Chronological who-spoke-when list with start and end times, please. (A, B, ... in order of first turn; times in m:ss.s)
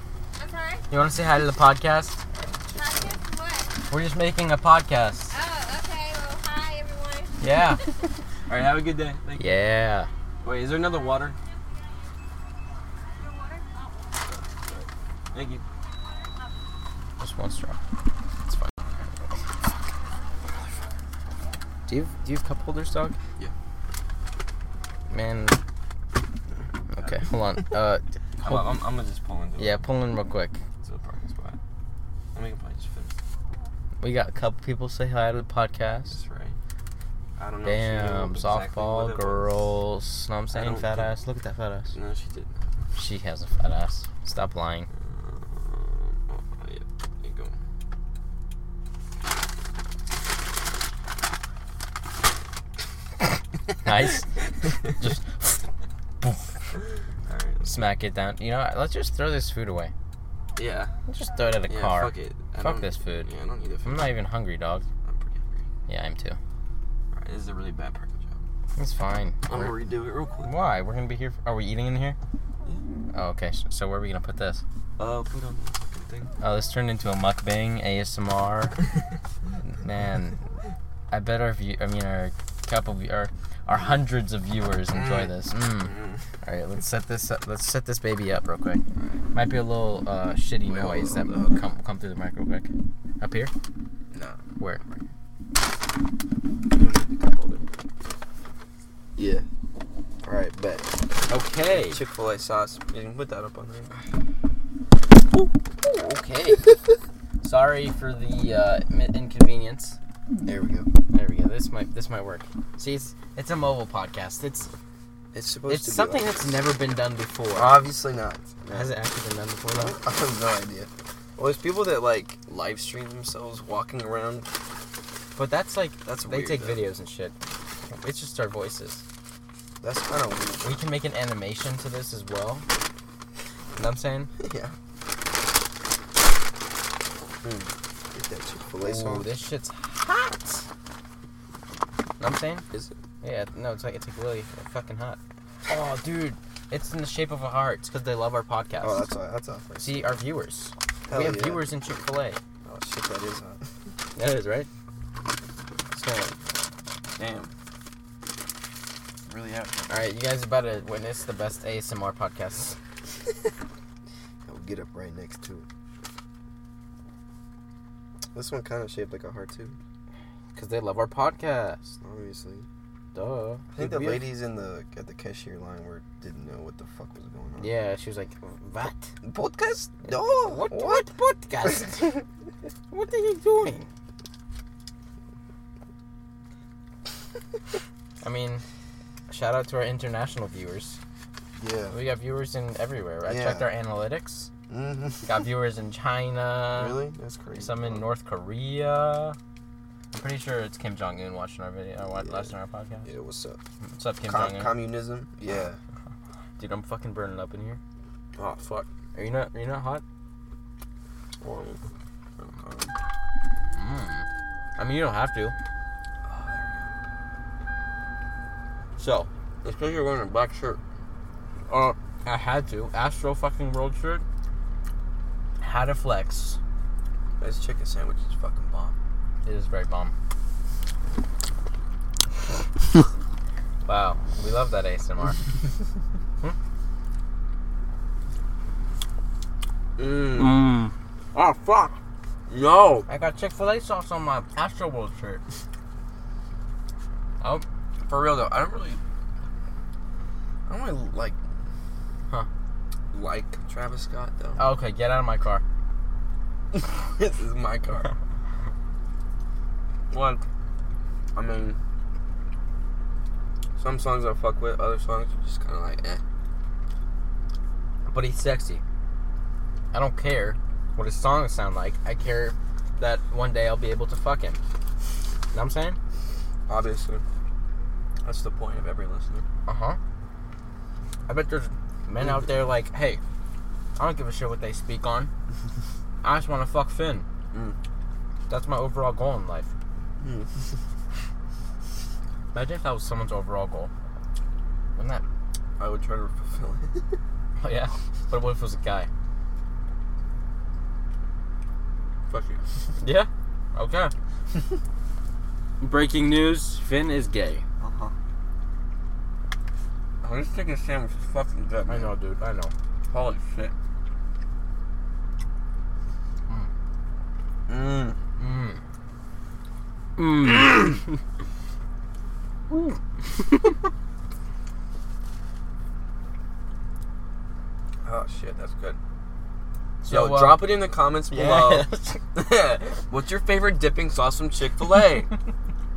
0:00.4-0:00.8 A
0:00.9-0:02.2 B
0:02.3-0:03.2 C
0:02.8-0:03.7 A
0:03.9-0:05.3 B
0:05.3-0:07.9 A
0:07.4-0:07.8 B
0:08.5-0:09.5 C
0:09.4-0:10.1 B
0:10.4-0:11.4 C
0:13.1-0:14.2 A
0:14.2-0:15.6 C
0:16.0-0:16.3 A
0:17.2-0:17.8 B
0:21.9-0:23.2 B
0:25.1-0:25.6 B
0:26.9-0:28.8 B
0:27.0-0:27.7 C
0:28.4-0:29.9 C
0:29.6-0:30.6 B
0:30.8-0:31.6 C
0:32.3-0:33.2 C
0:34.0-0:36.2 B
0:36.1-0:36.6 C
0:37.4-0:39.6 C
0:37.6-0:41.9 B
0:40.5-0:41.1 C
0:41.9-0:42.8 C
0:43.0-0:44.9 B
0:44.9-0:47.6 C
0:53.8-0:54.3 B
0:54.8-0:55.6 B
0:56.2-0:56.5 B
0:57.2-0:57.8 C
0:57.6-0:59.9 B
1:00.6-1:00.9 C
1:01.1-1:03.3 B
1:01.7-1:04.2 C
1:03.8-1:04.8 B
1:05.0-1:05.7 C
1:05.9-1:06.4 B
1:07.1-1:08.4 C
1:08.8-1:09.8 B
1:09.5-1:10.5 C
1:10.4-1:12.2 B
1:13.1-1:14.6 B
1:15.0-1:16.3 C
1:16.4-1:18.8 B
1:19.6-1:20.4 B
1:21.1-1:28.8 B
1:24.9-1:26.2 C
1:29.0-1:29.2 C
1:29.3-1:32.7 B
1:30.6-1:31.6 C
1:33.2-1:33.5 B
1:34.1-1:35.0 C
1:36.7-1:37.7 C
1:39.2-1:39.4 C
1:40.2-1:40.9 C
1:41.3-1:42.0 B
1:41.6-1:44.0 C
1:45.8-1:46.6 B
1:47.4-1:50.0 B
1:50.4-1:50.9 C
1:51.1-1:54.7 B
1:55.3-1:56.6 C
1:55.7-1:57.8 B
1:57.5-1:58.9 C
1:58.7-2:00.0 B
1:59.8-2:04.5 C
2:05.4-2:07.3 B
2:06.0-2:06.8 C
2:07.9-2:09.0 B
2:09.8-2:10.8 C
2:10.6-2:12.6 B
2:13.8-2:14.3 B
2:14.4-2:14.8 C
2:17.4-2:19.3 C
2:18.8-2:20.6 B
2:22.2-2:22.6 B
2:22.7-2:23.0 C
2:23.2-2:29.1 B
2:28.8-2:30.2 C
2:29.8-2:32.4 B
2:31.1-2:31.6 C
2:32.6-2:33.6 C
2:34.2-2:34.7 B
2:35.9-2:36.4 B
2:37.2-2:37.5 C
2:39.2-2:40.1 C
2:39.9-2:42.8 B
2:44.4-2:45.6 C
2:48.3-2:49.8 C
2:50.5-2:51.9 B
2:52.0-2:52.6 C
2:53.1-2:54.3 B
2:53.7-2:57.7 C
2:57.6-2:59.1 B
2:59.2-3:01.1 C
3:00.1-3:02.2 B
3:02.9-3:03.9 B
3:08.2-3:08.6 B
3:09.3-3:11.0 B
3:11.6-3:12.0 C
3:11.9-3:14.5 B
3:13.2-3:13.7 C
3:14.7-3:15.4 C
3:15.2-3:17.0 B
3:16.7-3:18.1 C
3:17.6-3:19.4 B
3:20.1-3:23.1 B
3:23.0-3:23.6 C
3:24.0-3:24.7 B
3:24.2-3:25.8 C
3:26.6-3:27.8 B
3:28.4-3:28.9 C
3:29.1-3:30.0 B
3:31.4-3:31.8 C
3:32.4-3:32.9 C
3:33.7-3:34.2 B
3:34.8-3:35.5 B
3:36.2-3:36.9 C
3:39.0-3:39.3 B
3:39.6-3:40.8 C
3:41.7-3:44.2 B
3:45.6-3:46.6 B
3:47.4-3:48.9 C
3:49.4-3:50.1 B
3:53.8-3:55.4 B
4:00.0-4:00.7 C
4:00.3-4:02.0 B
4:02.5-4:03.1 C
4:03.1-4:05.4 B
4:08.1-4:09.0 C
4:10.7-4:11.4 C
4:13.1-4:14.7 C
4:14.6-4:15.6 B
4:16.7-4:18.1 C
4:20.1-4:20.4 C
4:21.3-4:21.8 C
4:23.8-4:26.2 C
4:28.1-4:28.8 B
4:29.9-4:34.6 B
4:35.5-4:36.0 B
4:36.7-4:37.2 C
4:38.2-4:39.4 C
4:39.6-4:40.0 B
4:41.3-4:43.2 B
4:44.0-4:45.3 B
4:46.2-4:47.2 B
4:48.5-4:49.7 B
4:50.2-4:50.5 C
4:52.5-4:53.9 B
4:55.0-4:55.2 B
4:55.8-4:57.1 C
4:57.6-4:59.1 B
5:02.3-5:02.6 C
5:03.0-5:04.1 B
5:05.8-5:07.6 B
5:07.8-5:08.1 C
5:10.2-5:12.1 C
5:11.9-5:12.7 B
5:13.1-5:13.7 C
5:17.7-5:18.2 C
5:18.4-5:18.8 B
5:20.2-5:21.2 B
5:22.7-5:23.8 B
5:28.0-5:29.0 C
5:30.0-5:30.7 B
5:30.1-5:35.3 C
5:31.3-5:32.2 B